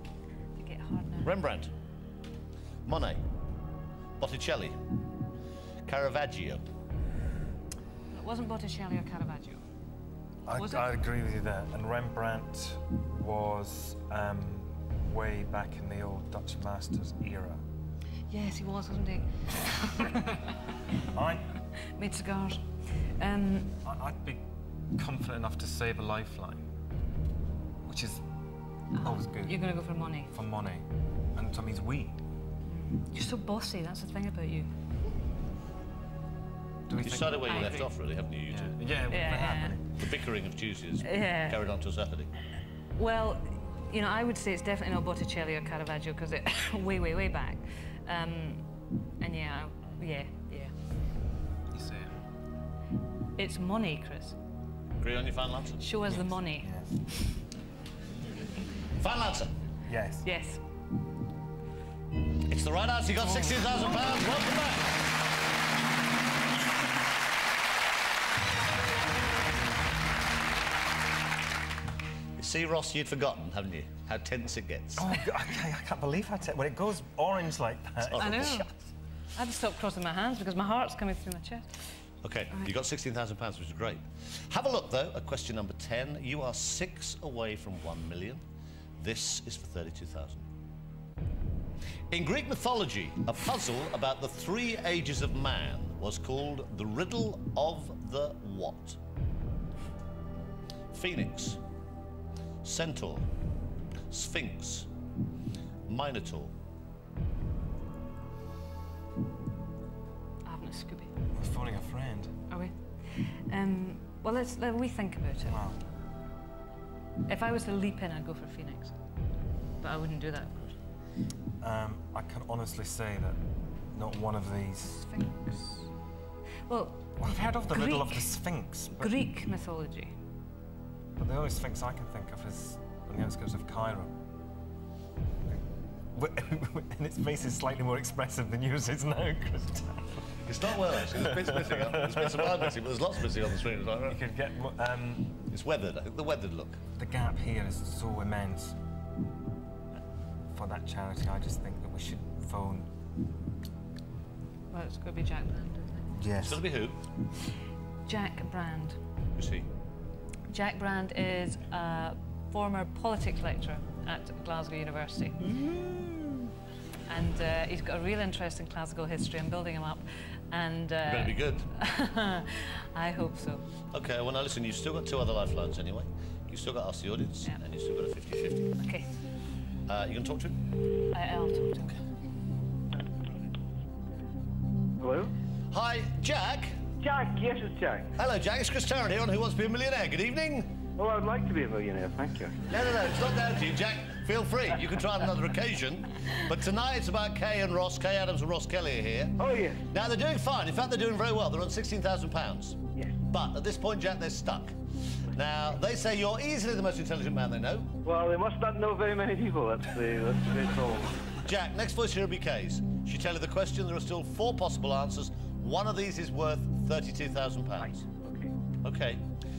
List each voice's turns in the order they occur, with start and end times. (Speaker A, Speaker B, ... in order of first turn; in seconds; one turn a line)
Speaker A: 0.6-1.4
Speaker B: 1.2-1.7
Speaker B: 2.9-3.2
Speaker B: 4.2-4.8
Speaker B: 5.8-6.6
Speaker A: 8.1-9.6
Speaker C: 10.4-17.6
Speaker A: 10.5-11.0
Speaker A: 18.3-20.4
Speaker C: 21.1-21.5
Speaker A: 21.7-23.8
Speaker C: 23.8-26.7
Speaker C: 27.8-28.2
Speaker A: 28.9-30.3
Speaker C: 29.0-29.6
Speaker C: 30.3-32.1
Speaker A: 32.6-34.7
Speaker C: 36.9-37.9
Speaker B: 37.0-38.7
Speaker A: 37.4-37.8
Speaker C: 38.5-39.9
Speaker A: 39.1-39.8
Speaker B: 40.0-42.3
Speaker A: 41.0-41.6
Speaker A: 42.9-50.7
Speaker C: 51.7-52.1
Speaker A: 53.4-54.4
Speaker B: 55.0-55.9
Speaker A: 55.8-57.3
Speaker C: 56.1-57.0
Speaker B: 59.0-59.5
Speaker C: 59.9-60.3
Speaker A: 60.2-60.6
Speaker B: 62.5-65.0
Speaker B: 72.4-75.2
Speaker C: 75.0-78.7
Speaker B: 78.0-78.7
Speaker A: 78.2-78.7
Speaker A: 79.3-81.8
Speaker B: 82.2-88.4
Speaker B: 89.0-90.5
Speaker B: 92.1-99.0
Speaker B: 100.9-101.6
Speaker B: 102.6-103.3
Speaker B: 104.1-104.9
Speaker B: 105.9-106.5
Speaker A: 110.4-111.1
Speaker C: 111.3-112.4
Speaker A: 112.5-115.6
Speaker C: 115.4-115.8
Speaker A: 117.3-119.0
Speaker A: 119.8-120.8
Speaker C: 121.6-123.4
Speaker C: 123.9-125.1
Speaker A: 125.1-125.8
Speaker A: 126.7-128.3
Speaker C: 127.2-129.1
Speaker A: 129.0-130.1
Speaker C: 131.2-134.1
Speaker C: 136.1-140.2
Speaker B: 140.4-144.2
Speaker C: 141.0-142.8
Speaker C: 144.1-145.3
Speaker B: 145.5-146.8
Speaker C: 146.9-148.8
Speaker C: 150.5-152.9
Speaker A: 154.7-156.1
Speaker C: 156.2-156.6
Speaker B: 156.4-157.0
Speaker A: 158.1-159.0
Speaker B: 159.3-159.7
Speaker A: 160.5-165.6
Speaker A: 167.1-173.6
Speaker B: 171.1-171.7
Speaker B: 173.9-178.7
Speaker A: 178.8-179.1
Speaker B: 179.8-180.6
Speaker A: 181.1-182.0
Speaker D: 185.0-185.3
Speaker B: 185.7-186.8
Speaker D: 187.0-188.1
Speaker B: 188.2-190.7
Speaker D: 190.9-192.7
Speaker B: 192.7-208.0
Speaker D: 199.4-199.8
Speaker D: 208.0-211.3
Speaker B: 211.4-218.0
Speaker D: 218.1-218.5
Speaker B: 218.8-219.2